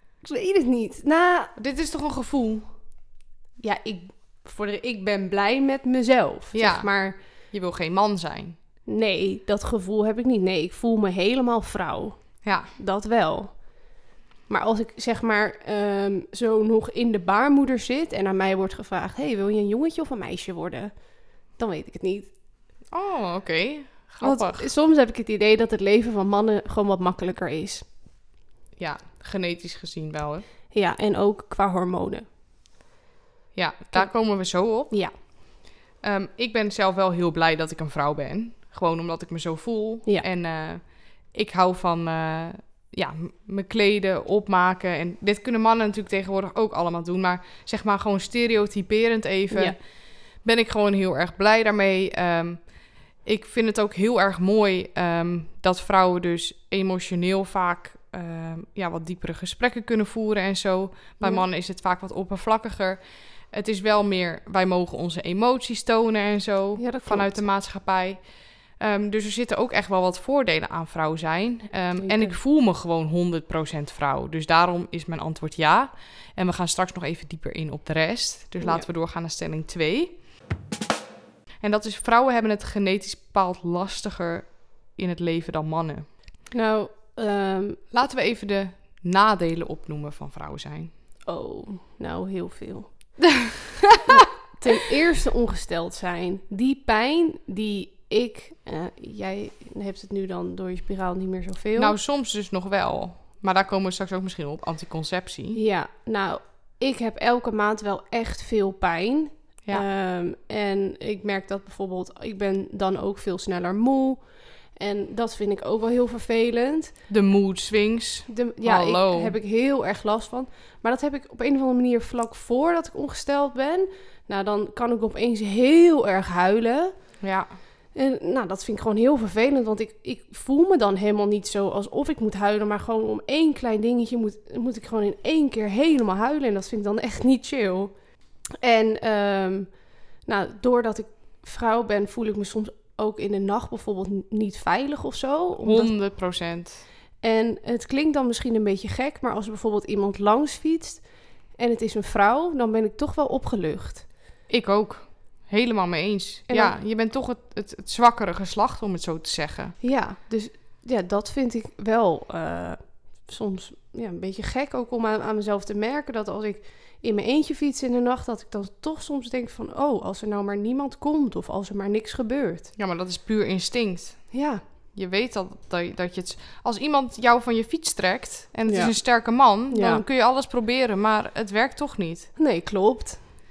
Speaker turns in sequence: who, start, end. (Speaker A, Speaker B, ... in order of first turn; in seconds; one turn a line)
Speaker A: 0.2-1.5
Speaker B: 1.6-2.7
Speaker A: 3.6-7.2
Speaker B: 6.5-6.9
Speaker B: 7.5-8.6
Speaker A: 8.9-13.5
Speaker B: 12.4-12.7
Speaker A: 14.5-20.9
Speaker A: 21.6-22.3
Speaker B: 22.9-24.7
Speaker A: 24.2-27.9
Speaker B: 28.8-30.4
Speaker A: 30.7-32.2
Speaker B: 33.5-34.9
Speaker B: 36.0-49.8
Speaker B: 50.4-52.7
Speaker B: 53.2-68.2
Speaker A: 61.2-61.5
Speaker A: 66.8-67.5
Speaker B: 68.8-80.1
Speaker A: 72.0-72.4
Speaker B: 81.6-86.1
Speaker A: 86.5-87.8
Speaker B: 87.9-90.9
Speaker A: 91.3-93.2
Speaker A: 94.0-102.0
Speaker B: 101.8-105.6
Speaker A: 105.5-114.2
Speaker A: 114.8-116.9
Speaker B: 117.1-119.3
Speaker A: 118.3-126.9
Speaker B: 127.2-127.5
Speaker A: 128.0-137.9
Speaker A: 138.6-139.7
Speaker A: 140.3-145.9
Speaker B: 145.6-146.8
Speaker A: 147.2-151.0
Speaker A: 151.6-154.1
Speaker B: 154.5-159.7
Speaker A: 156.5-156.8
Speaker A: 159.8-172.7
Speaker B: 172.8-174.2
Speaker A: 174.3-174.6
Speaker B: 174.9-182.3
Speaker A: 178.7-179.0
Speaker A: 179.7-180.0
Speaker A: 182.4-183.2